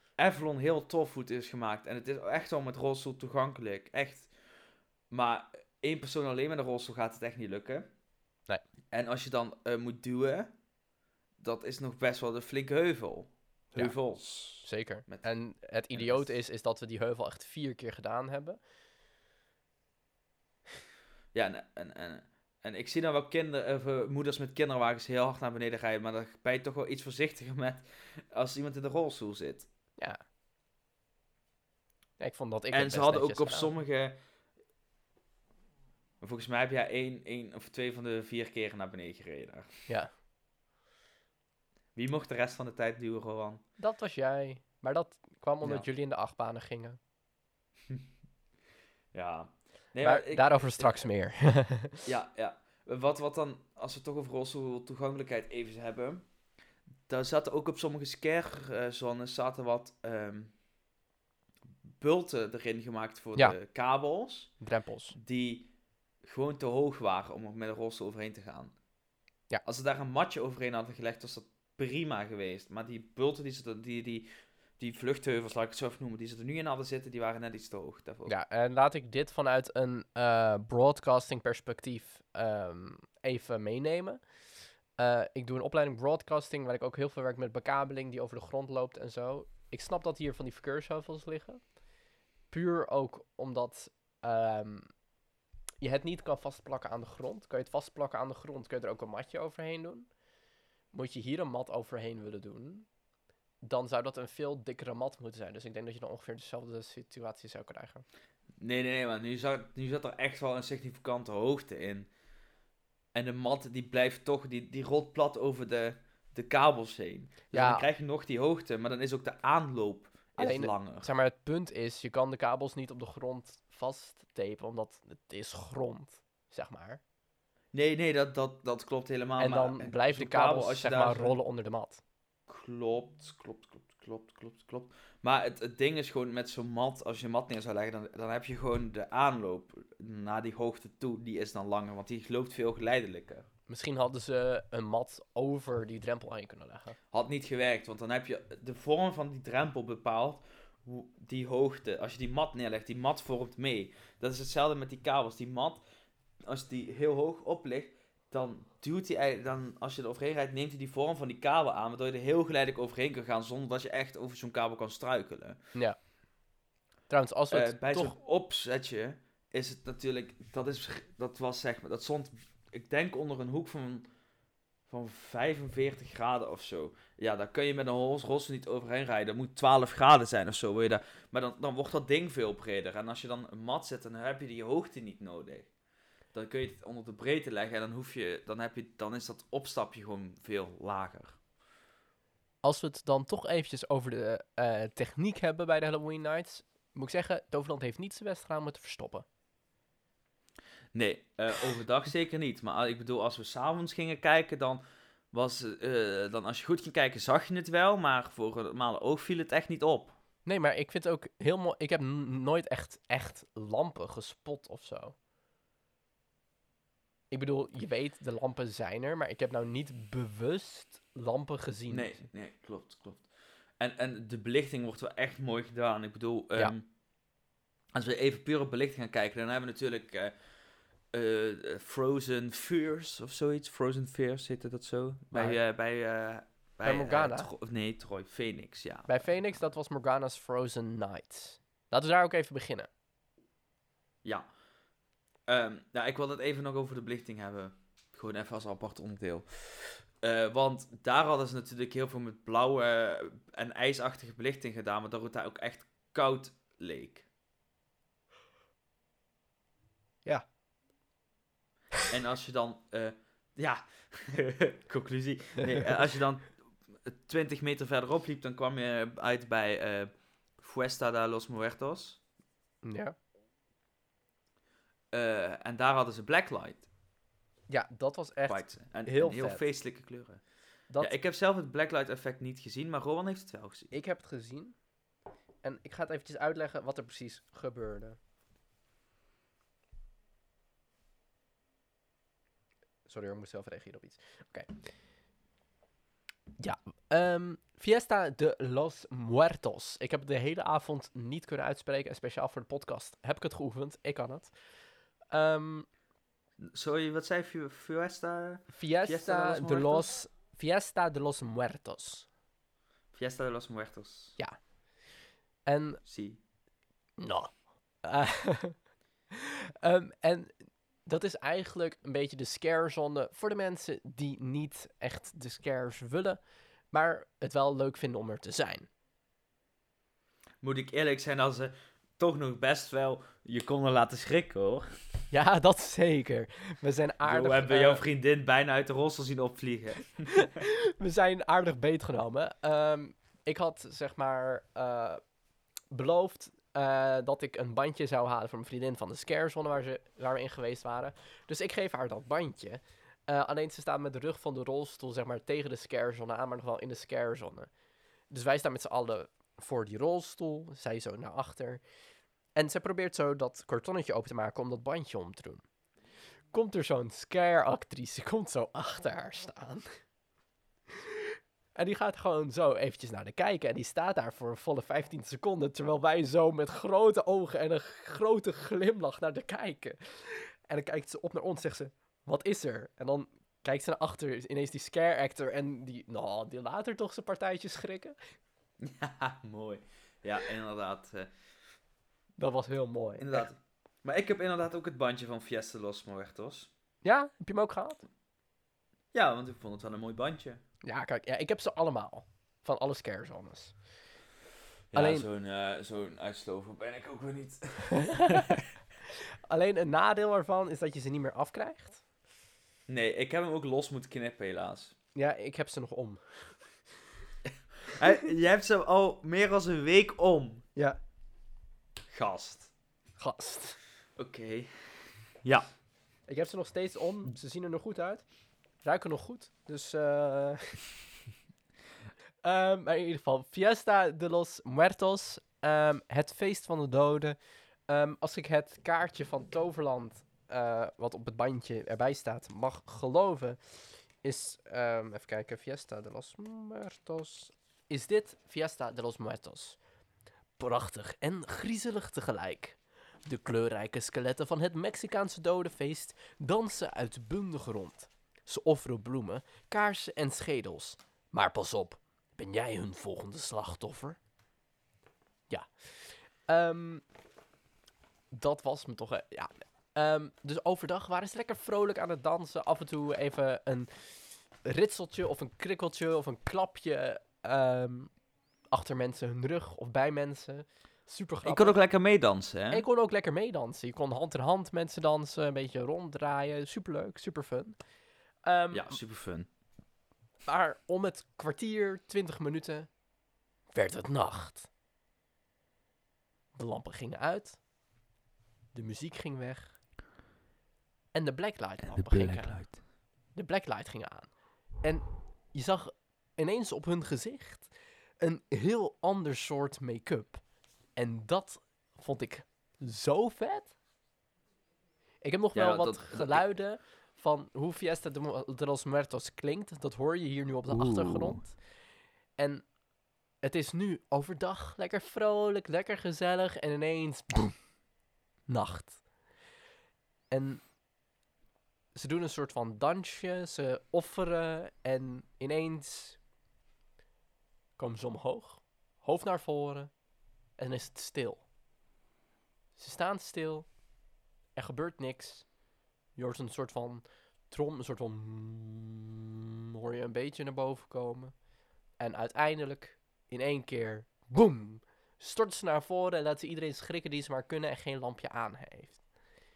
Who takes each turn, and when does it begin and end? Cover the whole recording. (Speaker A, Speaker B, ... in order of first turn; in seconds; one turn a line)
Speaker A: 0.2-4.3
Speaker A: 5.1-7.9
Speaker A: 8.9-10.5
Speaker A: 11.4-15.3
Speaker B: 14.6-18.6
Speaker A: 15.9-16.3
Speaker A: 21.3-29.7
Speaker B: 32.2-33.7
Speaker A: 32.7-34.2
Speaker A: 36.2-39.7
Speaker A: 42.0-43.6
Speaker B: 43.8-47.0
Speaker A: 49.1-50.9
Speaker B: 50.0-52.0
Speaker A: 52.1-56.3
Speaker A: 57.1-60.5
Speaker A: 62.0-64.5
Speaker B: 64.6-65.2
Speaker A: 65.1-65.7
Speaker A: 66.2-68.8
Speaker A: 69.6-74.3
Speaker A: 74.8-78.3
Speaker B: 78.3-84.2
Speaker B: 85.0-91.6
Speaker B: 92.5-94.9
Speaker B: 95.8-100.1
Speaker B: 100.9-102.9
Speaker B: 103.6-108.0
Speaker A: 108.6-112.1
Speaker A: 113.1-121.1
Speaker B: 117.5-117.9
Speaker B: 120.4-127.0
Speaker A: 127.7-131.4
Speaker B: 129.4-132.0
Speaker A: 132.5-143.5
Speaker B: 143.7-147.0
Speaker A: 147.1-155.8
Speaker A: 156.4-165.6
Speaker B: 167.1-168.2
Speaker A: 167.5-174.1
Speaker A: 174.9-185.7
Speaker A: 186.3-191.4
Speaker B: 192.6-199.2
Speaker A: 200.9-204.8
Speaker A: 205.3-210.2
Speaker B: 210.4-215.2
Speaker B: 217.3-222.2
Speaker A: 221.9-223.3
Speaker A: 223.8-226.8
Speaker A: 227.9-230.3
Speaker A: 231.1-239.2
Speaker B: 235.3-235.6
Speaker B: 236.8-237.5
Speaker B: 239.1-242.9
Speaker A: 244.2-244.5
Speaker A: 245.5-257.3
Speaker A: 262.1-272.2
Speaker B: 272.8-273.1
Speaker A: 275.1-276.9
Speaker B: 277.7-279.6
Speaker A: 278.5-280.4
Speaker B: 280.9-281.2
Speaker A: 281.0-283.9
Speaker B: 283.9-284.8
Speaker B: 285.6-288.2
Speaker B: 293.1-294.7
Speaker B: 296.6-304.5
Speaker B: 305.3-305.9
Speaker A: 306.6-310.1
Speaker B: 308.7-312.3
Speaker A: 313.1-314.4
Speaker B: 315.6-316.0
Speaker A: 316.1-316.4
Speaker B: 317.2-318.8
Speaker B: 319.3-328.9
Speaker A: 330.6-334.9
Speaker B: 335.3-338.0
Speaker A: 337.3-340.5
Speaker B: 340.3-345.2
Speaker B: 345.9-357.7
Speaker B: 358.3-361.8
Speaker B: 362.6-365.6
Speaker B: 366.5-369.9
Speaker B: 371.8-388.2
Speaker A: 388.8-391.3
Speaker B: 392.4-393.5
Speaker A: 393.2-396.7
Speaker B: 397.0-398.1
Speaker A: 399.1-400.6
Speaker B: 400.8-403.8
Speaker A: 404.9-408.6
Speaker B: 404.9-405.3
Speaker B: 407.9-408.6
Speaker B: 409.5-412.0
Speaker A: 412.9-414.9
Speaker B: 415.1-416.6
Speaker A: 417.5-420.6
Speaker A: 422.1-422.7
Speaker B: 423.2-423.8
Speaker A: 424.2-424.7
Speaker B: 426.3-428.2
Speaker B: 428.8-430.8
Speaker B: 432.4-449.8
Speaker B: 450.6-464.2
Speaker B: 465.5-467.0
Speaker B: 468.3-474.1
Speaker B: 474.6-478.2
Speaker B: 478.7-481.8
Speaker A: 481.4-482.8
Speaker B: 482.7-487.8
Speaker B: 488.4-489.0
Speaker A: 488.7-489.5
Speaker B: 490.5-492.9
Speaker B: 493.7-494.7
Speaker B: 496.6-497.6
Speaker B: 498.7-499.8
Speaker B: 501.1-502.7
Speaker A: 501.9-502.8
Speaker B: 503.4-510.4
Speaker B: 511.0-513.8
Speaker B: 515.2-521.6
Speaker A: 515.5-516.4
Speaker A: 520.7-521.5
Speaker B: 522.4-522.7
Speaker B: 523.4-527.6
Speaker B: 528.5-529.0
Speaker B: 530.3-530.6
Speaker B: 532.0-536.2
Speaker B: 537.8-539.9
Speaker B: 540.6-541.5
Speaker B: 542.8-543.8
Speaker B: 544.6-545.5
Speaker B: 546.2-549.2
Speaker B: 549.8-551.4
Speaker B: 552.0-559.0